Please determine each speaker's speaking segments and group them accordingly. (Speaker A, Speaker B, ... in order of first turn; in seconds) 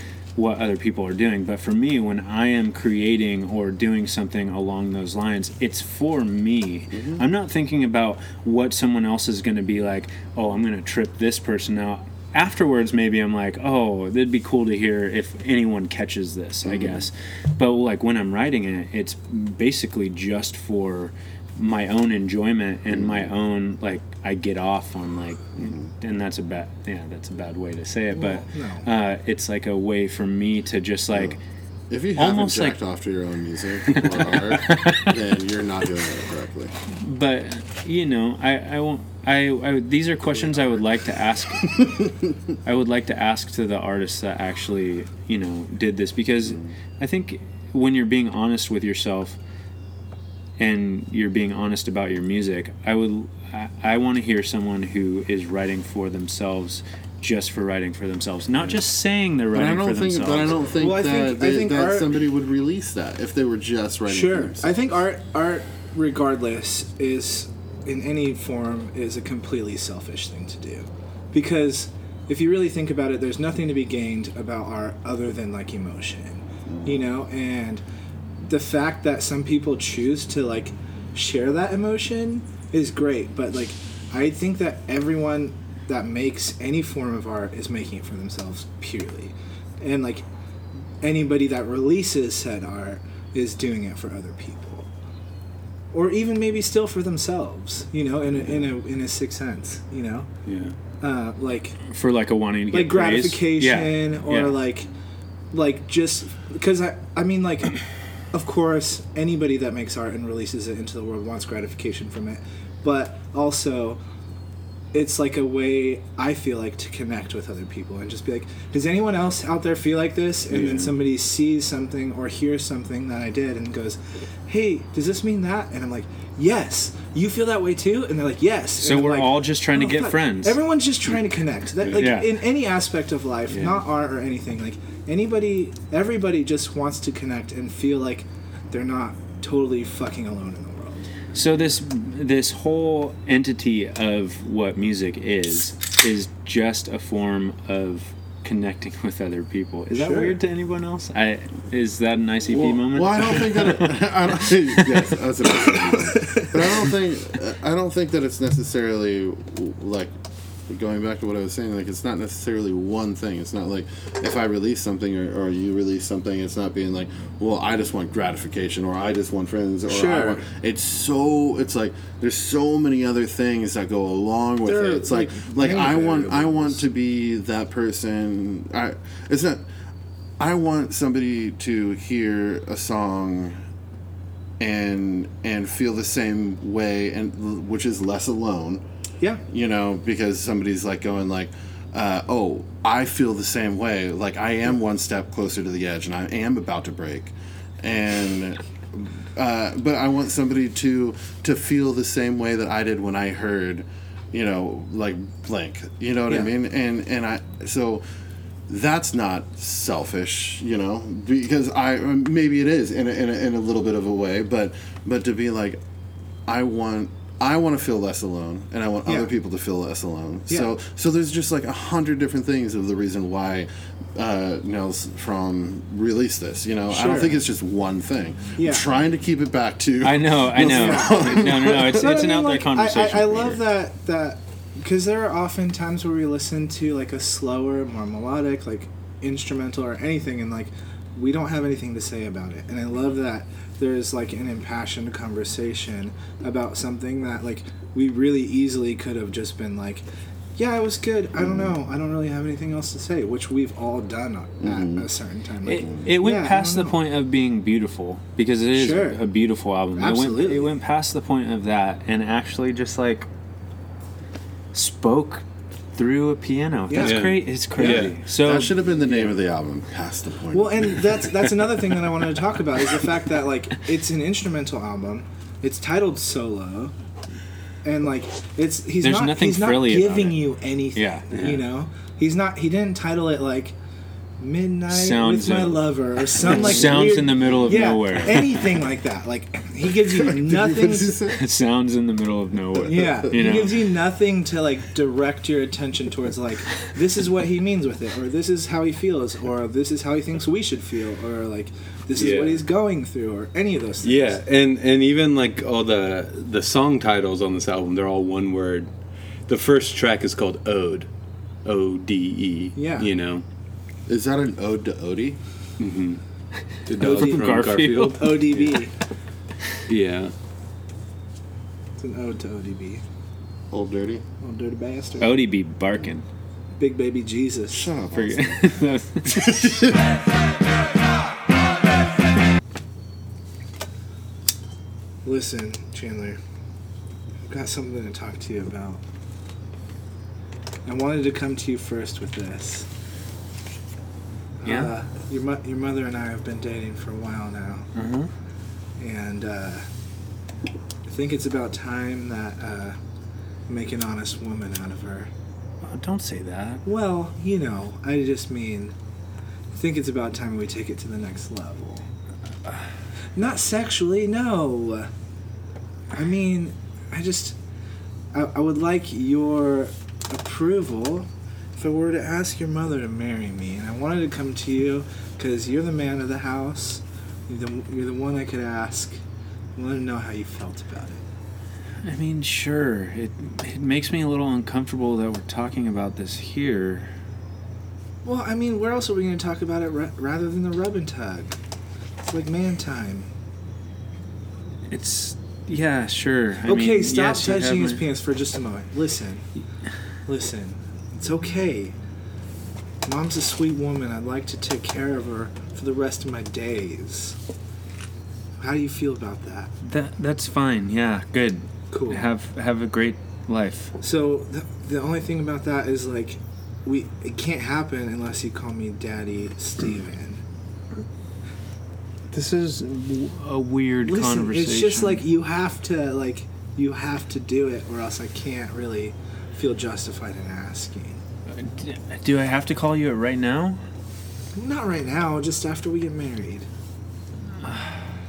Speaker A: 0.3-31.4, 32.1-32.8, 33.9-35.2, 36.9-41.9, 42.6-49.4, 50.6-60.6, 101.9-104.6, 128.8-130.6, 132.0-132.3, 141.3-154.1, 154.7-155.0, 230.0-233.6, 255.6-263.3, 264.7-268.7, 279.0-280.4, 280.9-281.2, 284.9-285.9, 286.4-288.5, 291.3-293.9, 316.9-318.4, 325.2-326.2, 328.1-329.8, 344.6-344.9, 347.9-348.3, 355.8-356.8, 382.0-387.1, 394.9-398.0, 409.8-413.9, 422.3-425.2, 431.5-433.8, 437.6-438.1
Speaker B: 6.9-7.2, 16.6-17.0, 22.9-23.3, 25.6-25.9, 31.9-36.7, 40.3-40.8, 59.5-64.8, 152.5-160.1, 160.7-179.6, 180.4-183.6, 184.6-188.8, 189.4-208.0, 208.7-215.8, 216.5-232.2, 251.4-251.8, 254.6-255.1, 268.3-271.2, 286.6-287.8, 290.1-291.4, 292.7-293.3, 314.1-315.4, 323.7-324.2, 327.7-329.9
Speaker C: 28.1-28.9, 60.8-62.1, 64.1-77.8, 78.4-90.2, 91.0-94.9, 95.9-100.3, 101.0-101.8, 102.7-104.9, 105.5-107.8, 108.3-114.0, 114.9-141.1, 149.9-150.4, 156.1-156.5, 169.9-170.4, 174.6-176.8, 219.1-219.3, 226.9-227.4, 228.6-228.9, 230.6-250.0, 250.6-257.0, 258.7-259.2, 260.0-260.7, 266.9-268.1, 270.5-276.9, 277.8-283.7, 284.4-291.2, 292.8-304.4, 312.8-313.1, 317.0-317.5, 318.1-318.9, 322.0-323.0, 324.4-325.4, 326.8-327.9, 335.2-336.4, 337.4-339.0, 340.9-342.9, 344.6-347.9, 349.0-349.9, 351.1-353.0, 353.7-355.3, 356.8-358.9, 359.7-362.1, 363.4-365.1, 366.1-367.6, 368.3-379.2, 379.8-381.2, 388.2-391.6, 392.2-393.3, 396.6-399.5, 400.2-401.9, 403.0-407.4, 408.6-409.7, 411.9-412.3, 414.0-420.4, 424.0-431.2, 434.5-436.7
Speaker D: 100.5-100.7, 120.5-120.9, 267.0-268.2, 281.3-281.6, 302.1-302.6, 304.0-308.9, 309.5-311.1, 311.6-313.4, 315.8-316.2, 316.9-318.8, 319.9-320.3